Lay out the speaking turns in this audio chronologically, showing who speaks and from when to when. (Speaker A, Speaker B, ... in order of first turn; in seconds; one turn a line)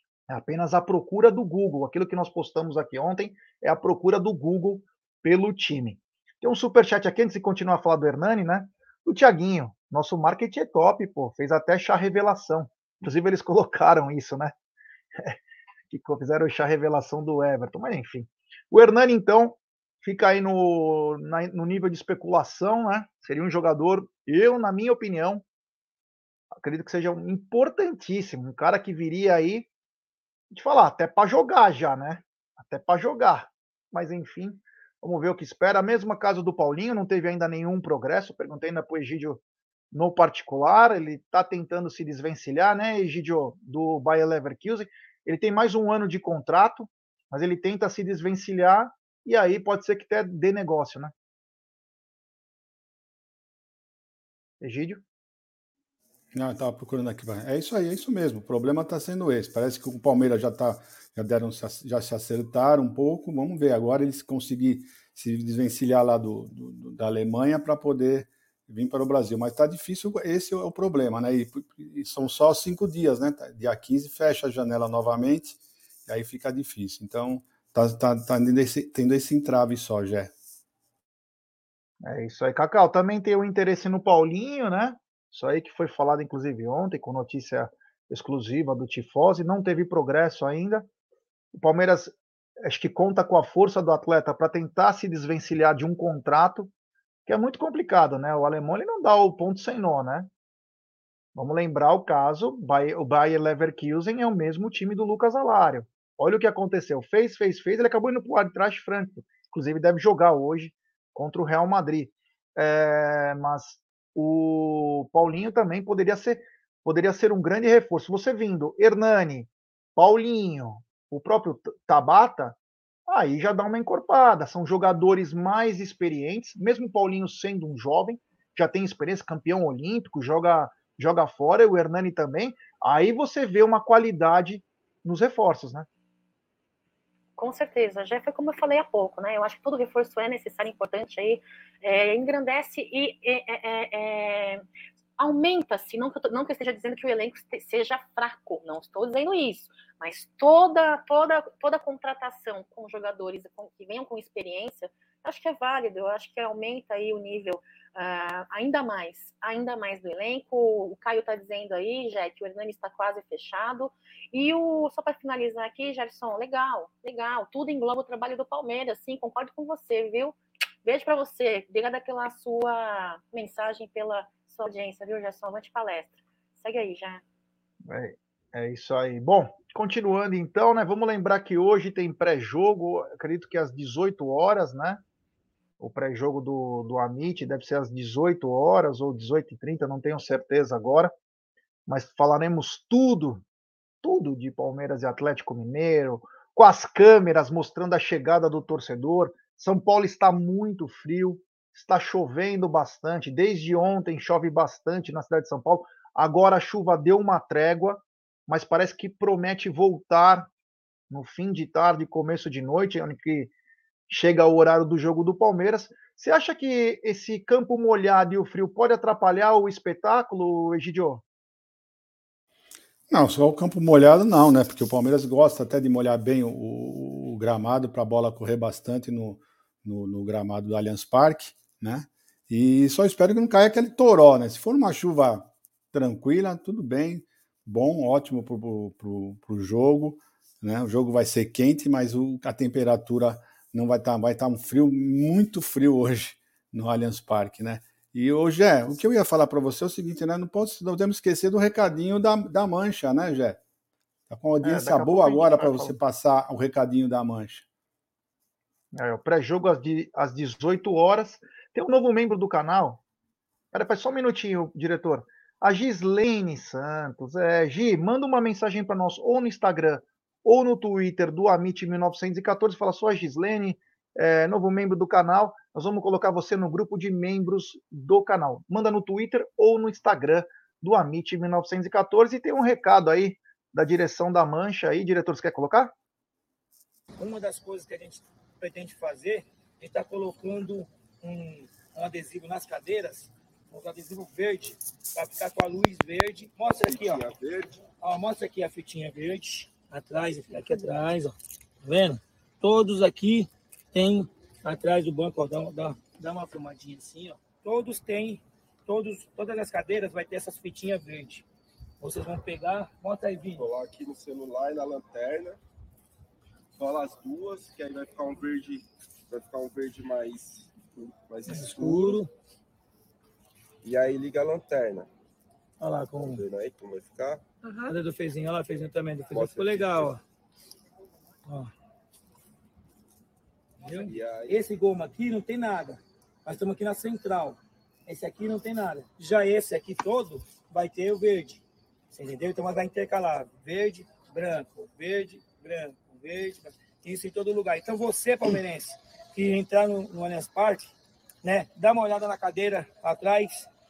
Speaker A: 0.3-14.5
Speaker A: 15.9-25.4
Speaker A: 26.5-29.7
Speaker A: 30.5-39.4
Speaker A: 39.9-51.1
Speaker A: 54.6-55.0
Speaker B: 56.3-80.3
Speaker A: 82.0-90.9
Speaker A: 91.5-96.7
Speaker A: 97.3-100.3
Speaker A: 101.3-135.9
Speaker C: 137.4-144.6
Speaker C: 145.2-177.2
Speaker A: 177.9-185.0
Speaker A: 185.8-191.1
Speaker A: 191.9-193.4
Speaker A: 194.0-210.5
Speaker A: 211.1-213.5
Speaker A: 214.1-221.2
Speaker B: 223.1-253.6
Speaker B: 254.3-257.6
Speaker A: 254.6-255.9
Speaker A: 258.9-263.0
Speaker A: 263.7-285.9
Speaker D: 287.2-297.3
Speaker E: 296.8-297.8
Speaker D: 297.9-311.4
Speaker D: 312.0-313.6
Speaker E: 313.6-315.6
Speaker E: 316.8-322.2
Speaker D: 321.5-322.3
Speaker E: 323.8-325.1
Speaker D: 325.8-326.4
Speaker E: 326.2-327.4
Speaker D: 327.7-330.2
Speaker E: 329.3-330.1
Speaker D: 333.8-353.7
Speaker E: 334.0-334.6